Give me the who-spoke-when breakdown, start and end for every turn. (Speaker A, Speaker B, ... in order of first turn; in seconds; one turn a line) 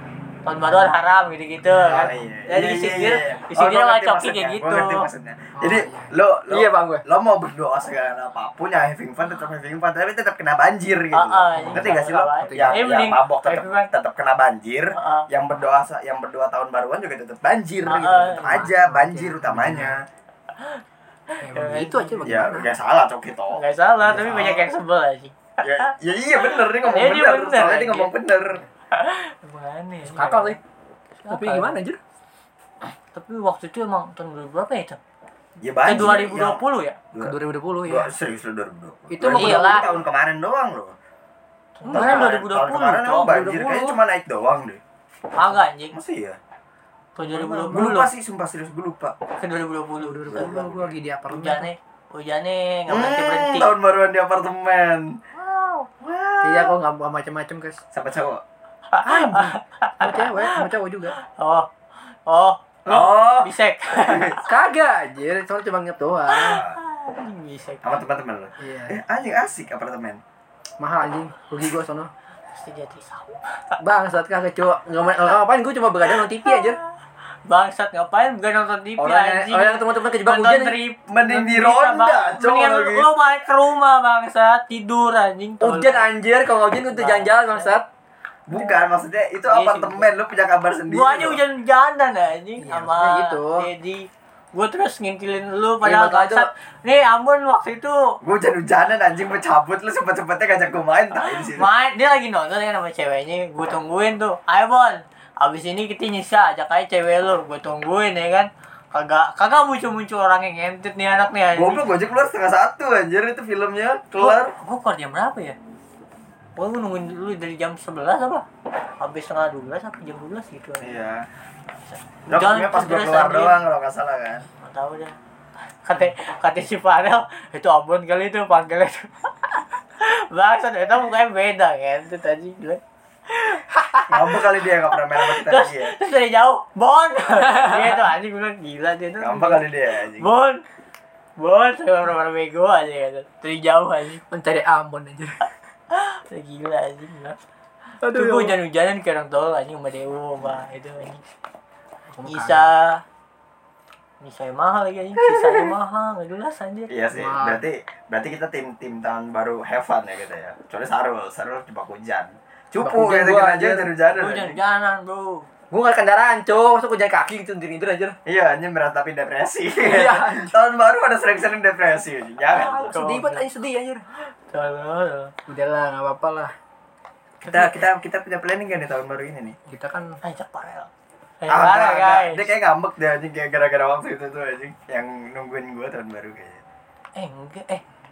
Speaker A: 0.4-5.1
Speaker B: 1.7-2.1
Speaker C: 1.8-20.1
Speaker B: 5.6-7.0
Speaker A: 11.1-13.9
Speaker B: 11.5-12.9
Speaker A: 14.9-15.3
Speaker A: 17.9-18.7
Speaker B: 18.5-20.0
Speaker A: 21.4-22.3
Speaker B: 21.4-22.8
Speaker C: 22.2-24.7
Speaker A: 23.5-28.1
Speaker B: 24.1-24.5
Speaker C: 25.6-28.6
Speaker A: 28.9-30.6
Speaker B: 30.1-30.6
Speaker A: 31.2-31.8
Speaker B: 31.3-32.0
Speaker A: 33.1-35.0
Speaker C: 35.6-41.0
Speaker A: 35.8-37.0
Speaker B: 37.2-38.1
Speaker B: 39.1-40.0
Speaker A: 39.2-39.9
Speaker A: 41.8-43.4
Speaker B: 41.9-42.3
Speaker C: 41.9-44.8
Speaker B: 43.2-44.0
Speaker A: 45.4-46.0
Speaker C: 45.9-46.4
Speaker A: 47.2-48.1
Speaker C: 47.3-49.1
Speaker A: 49.4-50.5
Speaker B: 50.0-51.7
Speaker C: 50.3-51.0
Speaker A: 51.3-53.8
Speaker C: 52.9-55.2
Speaker A: 55.4-55.9
Speaker C: 56.0-56.7
Speaker B: 56.4-57.8
Speaker C: 57.9-58.4
Speaker A: 58.9-60.6
Speaker B: 59.0-61.2
Speaker A: 61.2-61.7
Speaker A: 62.3-64.4
Speaker C: 62.9-64.4
Speaker B: 64.4-66.6
Speaker A: 66.3-67.9
Speaker C: 66.4-66.8
Speaker C: 67.8-70.2
Speaker B: 68.6-69.0
Speaker B: 70.8-72.1
Speaker A: 72.5-73.7
Speaker B: 73.8-76.8
Speaker A: 76.1-76.7
Speaker A: 77.5-86.0
Speaker B: 79.0-80.8
Speaker C: 81.1-83.1
Speaker B: 85.6-87.8
Speaker A: 87.0-87.7
Speaker C: 88.5-91.4
Speaker A: 88.5-88.8
Speaker A: 89.5-90.1
Speaker A: 90.9-98.2
Speaker B: 92.6-93.7
Speaker B: 95.8-96.5
Speaker C: 98.2-101.7
Speaker A: 101.2-111.9
Speaker C: 111.5-114.5
Speaker A: 114.2-115.6
Speaker A: 116.6-118.5
Speaker A: 119.0-121.0
Speaker C: 120.8-121.3
Speaker A: 121.9-123.6
Speaker C: 122.3-124.5
Speaker A: 124.6-125.2
Speaker A: 125.8-133.6
Speaker B: 133.8-134.1
Speaker C: 134.1-136.0
Speaker A: 135.1-140.6
Speaker C: 139.2-140.3
Speaker A: 141.4-144.2
Speaker B: 144.3-145.5
Speaker A: 145.9-147.4
Speaker B: 148.0-148.6
Speaker A: 148.1-151.2
Speaker B: 152.1-152.7
Speaker A: 152.3-153.0
Speaker A: 154.2-156.9
Speaker C: 155.3-155.7
Speaker C: 156.9-164.6
Speaker B: 157.1-157.6
Speaker B: 162.8-163.9
Speaker A: 164.1-165.5
Speaker B: 165.7-168.2
Speaker C: 168.3-172.9
Speaker B: 169.8-170.5
Speaker B: 172.5-174.0
Speaker A: 172.9-173.5
Speaker A: 174.5-175.3
Speaker B: 175.5-176.5
Speaker A: 177.4-177.8
Speaker C: 177.4-179.6
Speaker B: 179.7-180.2
Speaker A: 180.2-180.9
Speaker A: 181.4-182.5
Speaker C: 181.5-186.6
Speaker A: 187.2-187.8